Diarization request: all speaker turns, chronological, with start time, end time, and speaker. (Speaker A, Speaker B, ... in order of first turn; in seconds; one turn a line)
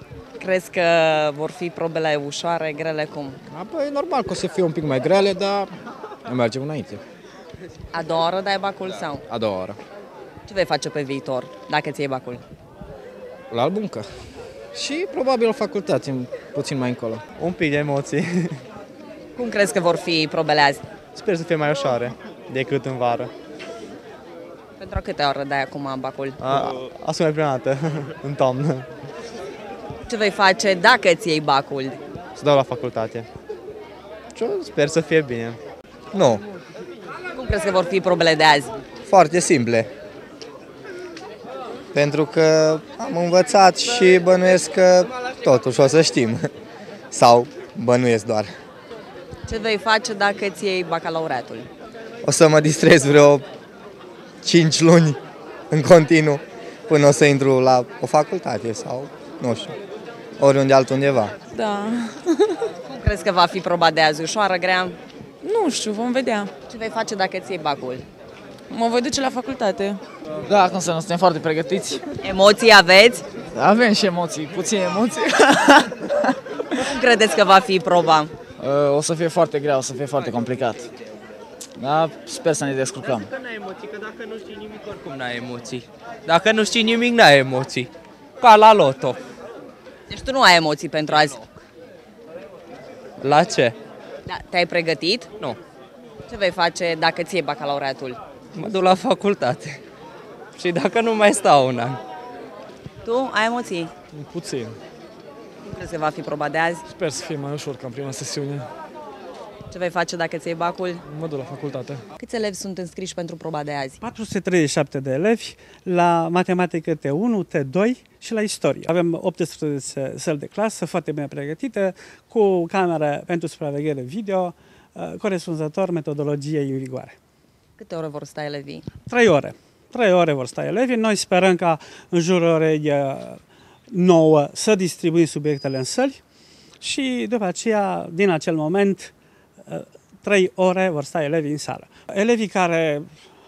Speaker A: 0.4-3.4
Speaker B: 3.5-5.7
Speaker B: 6.3-7.0
Speaker A: 7.9-9.2
Speaker B: 9.3-9.8
Speaker A: 10.5-12.4
Speaker B: 13.5-14.1
Speaker B: 14.7-17.2
Speaker C: 17.4-18.5
Speaker A: 19.4-20.8
Speaker C: 21.1-23.3
Speaker A: 24.8-26.4
Speaker C: 26.4-28.9
Speaker A: 30.1-31.9
Speaker C: 32.4-33.3
Speaker C: 34.4-35.6
Speaker D: 36.1-36.4
Speaker A: 37.4-38.7
Speaker D: 39.1-39.9
Speaker D: 41.9-46.5
Speaker D: 47.1-48.5
Speaker A: 49.5-51.7
Speaker D: 52.2-53.5
Speaker D: 54.4-55.2
Speaker D: 55.7-59.8
Speaker D: 60.4-61.3
Speaker E: 61.5-62.2
Speaker A: 62.9-65.0
Speaker E: 65.4-66.5
Speaker A: 66.7-68.0
Speaker E: 68.7-70.0
Speaker F: 70.5-72.1
Speaker A: 72.2-73.2
Speaker F: 73.5-76.3
Speaker A: 76.8-78.3
Speaker F: 78.6-80.9
Speaker F: 81.8-83.3
Speaker G: 84.4-89.2
Speaker A: 90.1-91.4
Speaker G: 93.2-93.8
Speaker A: 94.3-95.2
Speaker A: 96.3-98.1
Speaker G: 98.5-99.8
Speaker G: 100.6-102.0
Speaker A: 103.0-103.9
Speaker H: 104.2-104.7
Speaker A: 105.7-106.8
Speaker H: 107.0-108.7
Speaker A: 109.7-111.0
Speaker H: 111.1-112.0
Speaker A: 112.2-114.0
Speaker I: 114.0-127.2
Speaker A: 127.8-128.9
Speaker I: 129.1-136.2
Speaker I: 136.8-139.1
Speaker I: 139.7-143.1